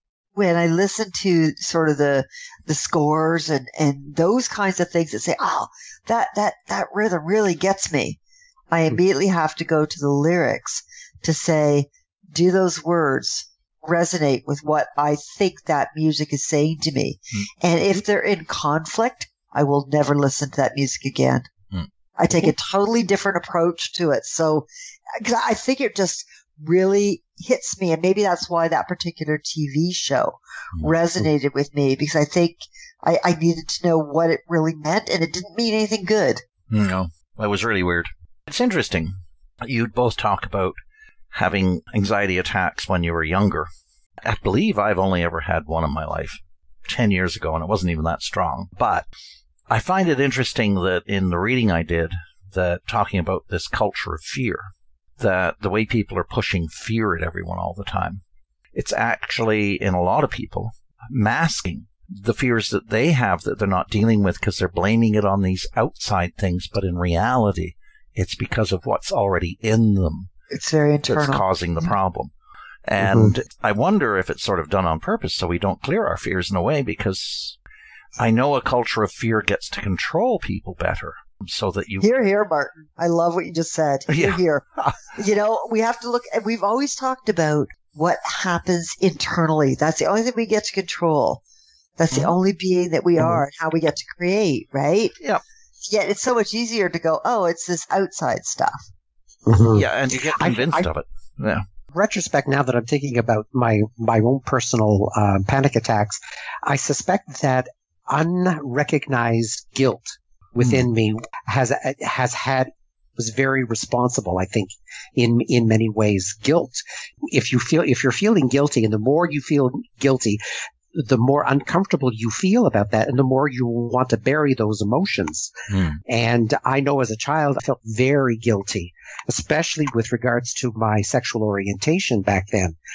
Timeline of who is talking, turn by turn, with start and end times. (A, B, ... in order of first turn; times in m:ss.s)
0:00.4-0:08.2 A
0:08.7-0:21.5 A
0:22.2-0:36.4 A
0:36.7-0:40.8 B
0:41.3-0:43.7 B
0:44.2-0:49.0 B
0:49.7-0:58.2 B
0:58.7-1:10.3 B
1:10.5-1:11.9 A
1:11.1-1:12.3 B
1:12.9-1:17.6 B
1:13.0-1:13.3 C
1:18.2-1:22.1 B
1:22.0-1:31.4 A
1:24.1-1:25.0 B
1:32.0-1:35.2 A
1:35.8-1:38.8 A
1:39.4-1:40.9 C
1:39.7-1:41.6 B
1:41.9-2:00.4 C
2:00.9-2:12.8 C
2:05.7-2:06.0 B